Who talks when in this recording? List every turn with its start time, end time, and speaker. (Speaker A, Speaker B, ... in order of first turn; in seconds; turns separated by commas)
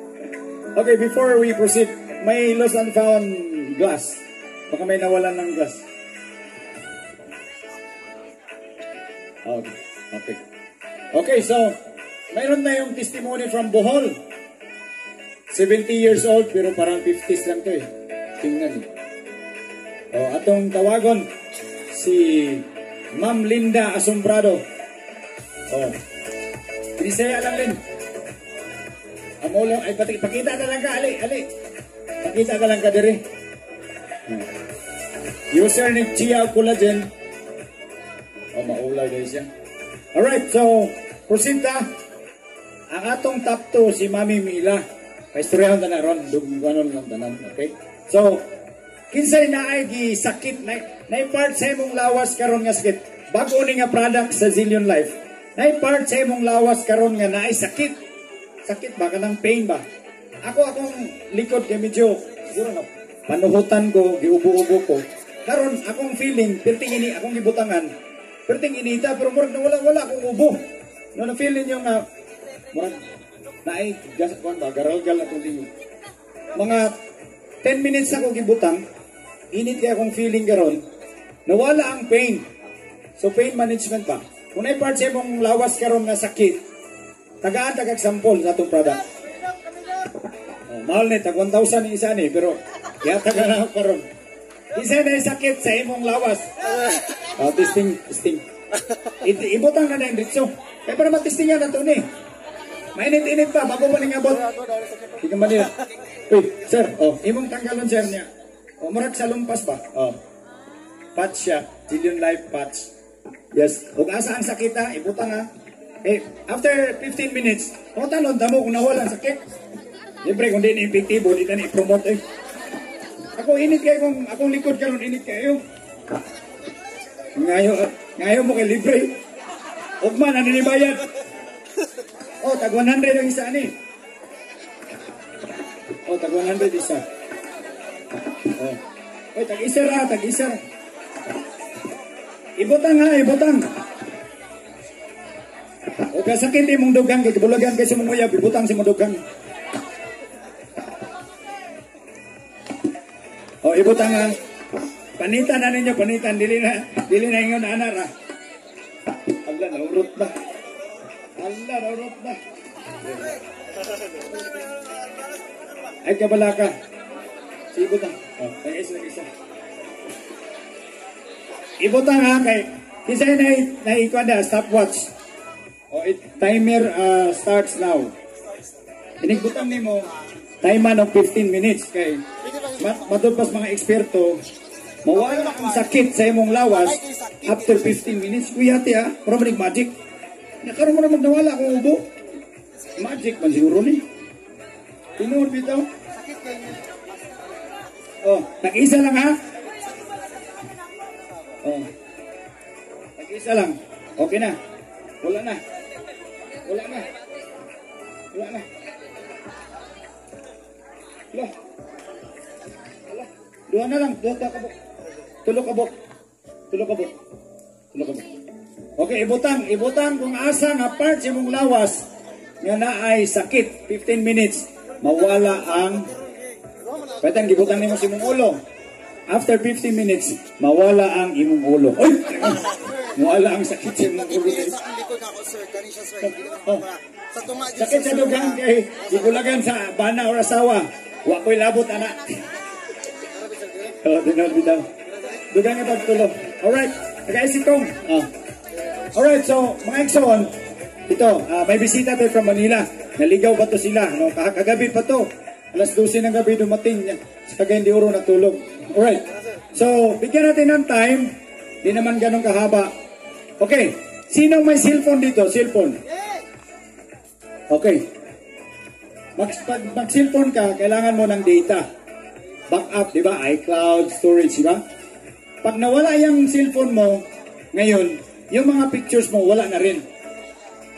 Speaker A: 0.8-5.8, Speaker A: 9.5-10.4, Speaker A: 11.1-11.8, Speaker A: 12.3-14.2, Speaker A: 15.5-17.9, Speaker A: 18.4-18.9, Speaker A: 20.1-21.2, Speaker A: 21.9-22.6, Speaker A: 23.2-24.6, Speaker A: 27.0-27.8, Speaker A: 29.4-31.4, Speaker A: 32.2-33.2, Speaker A: 35.5-37.1, Speaker A: 38.5-39.5, Speaker A: 40.1-41.9, Speaker A: 42.9-44.8, Speaker A: 45.3-48.4, Speaker A: 49.1-57.9, Speaker A: 58.7-59.8, Speaker A: 60.5-67.9, Speaker A: 68.5-70.6, Speaker A: 71.2-72.0, Speaker A: 72.7-73.0, Speaker A: 73.7-75.7, Speaker A: 76.5-76.9, Speaker A: 77.6-78.8, Speaker A: 79.5-80.8, Speaker A: 81.5-82.4, Speaker A: 83.2-86.6, Speaker A: 87.4-89.0, Speaker A: 90.7-94.0, Speaker A: 94.8-96.5, Speaker A: 97.4-98.4, Speaker A: 99.2-102.0, Speaker A: 103.0-104.5, Speaker A: 105.2-105.7, Speaker A: 106.3-108.3, Speaker A: 108.8-110.2, Speaker A: 111.2-112.9, Speaker A: 113.5-115.5, Speaker A: 116.0-119.4, Speaker A: 120.2-122.2, Speaker A: 123.4-125.6, Speaker A: 127.4-129.1, Speaker A: 130.0-131.0, Speaker A: 132.4-133.7, Speaker A: 136.1-137.0, Speaker A: 139.3-140.6, Speaker A: 142.6-143.6, Speaker A: 146.1-149.2, Speaker A: 153.6-154.4, Speaker A: 155.2-158.1, Speaker A: 159.4-160.3, Speaker A: 161.4-162.4, Speaker A: 163.1-163.4, Speaker A: 166.0-166.7, Speaker A: 167.7-169.3, Speaker A: 171.8-175.1, Speaker A: 175.9-178.1, Speaker A: 179.2-180.1, Speaker A: 180.6-182.2, Speaker A: 182.8-184.4, Speaker A: 185.1-189.9, Speaker A: 190.6-192.0, Speaker A: 193.0-194.0, Speaker A: 195.2-195.9, Speaker A: 198.2-199.3, Speaker A: 203.2-204.6, Speaker A: 205.2-205.6, Speaker A: 206.7-207.1, Speaker A: 208.3-208.7, Speaker A: 213.1-214.8, Speaker A: 215.4-215.9, Speaker A: 216.7-217.1, Speaker A: 217.9-218.3, Speaker A: 219.0-222.0, Speaker A: 222.6-226.1, Speaker A: 227.2-228.6, Speaker A: 229.3-234.8, Speaker A: 236.2-236.9, Speaker A: 237.7-242.4, Speaker A: 244.0-244.8, Speaker A: 245.5-248.3, Speaker A: 249.2-250.5, Speaker A: 251.1-261.3, Speaker A: 261.8-262.9, Speaker A: 263.6-266.0, Speaker A: 267.7-268.0, Speaker A: 269.4-271.8, Speaker A: 272.7-274.8, Speaker A: 275.6-280.0